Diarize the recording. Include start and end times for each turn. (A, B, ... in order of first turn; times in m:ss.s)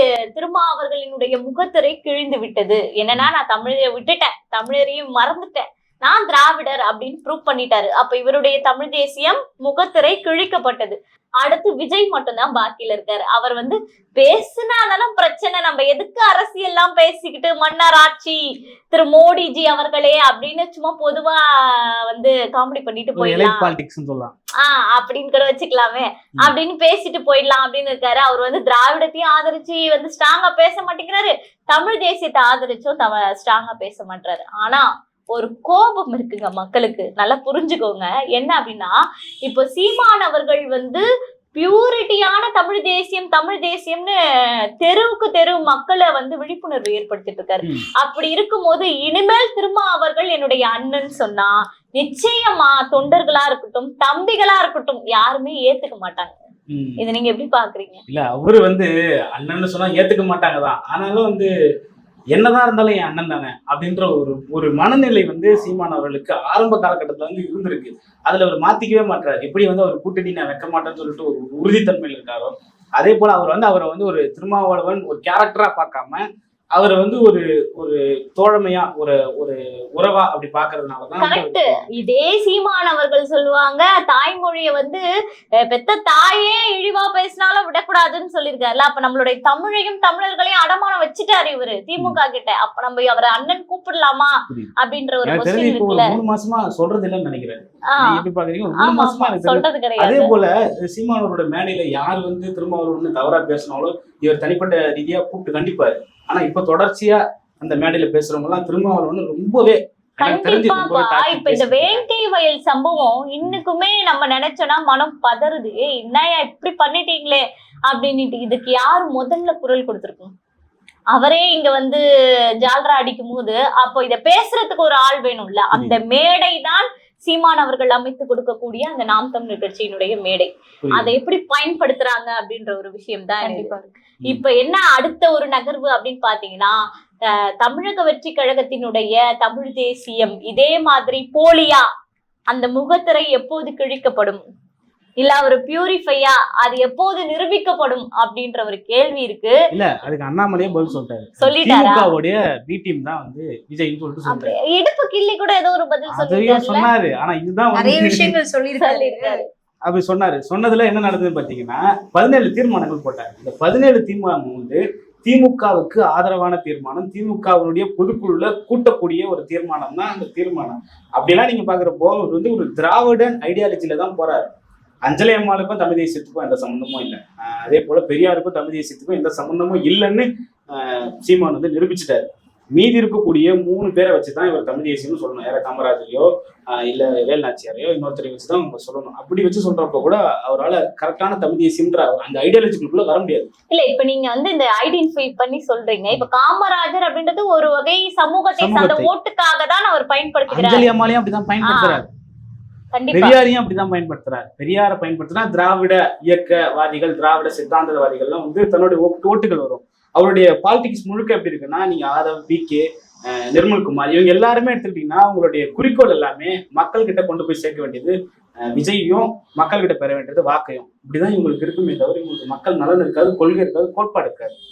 0:00.3-0:18.4 A
0:18.9-0:23.7 A
0:23.2-0:24.3 B
0:24.6-0:38.9 A
0:39.4-0:41.0 A
0:41.6-0:44.1 A
0:44.8-0:56.3 A
0:56.7-0:57.0 B
0:57.0-0:58.0 A
0:58.1-1:01.5 B
1:02.3-1:16.2 B
1:16.8-1:21.9 B
1:21.2-1:25.0 A
1:25.7-1:36.2 A
1:35.2-1:52.1 B
1:37.9-1:38.2 A
1:38.8-1:40.3 A
1:50.2-2:00.3 A
2:01.1-2:02.0 A
2:02.6-2:13.7 A
2:05.7-2:06.0 B
2:10.8-2:11.1 B
2:13.4-2:13.9 C
2:14.2-2:16.7 A
2:17.6-2:21.8 A
2:22.5-2:24.4 A
2:25.2-2:29.5 A
2:29.7-2:34.5 B
2:31.4-2:32.1 A
2:34.3-2:36.9 A
2:36.1-2:38.3 B
2:37.7-2:39.4 C
2:38.8-2:39.5 A
2:39.9-2:54.5 B
2:55.1-3:13.5 B
3:13.7-3:20.9 A
3:18.6-3:19.1 B
3:20.5-3:22.1 B
3:21.6-3:22.0 A
3:22.9-3:23.4 A
3:23.1-3:32.8 B
3:33.4-3:38.2 B
3:38.7-3:44.5 B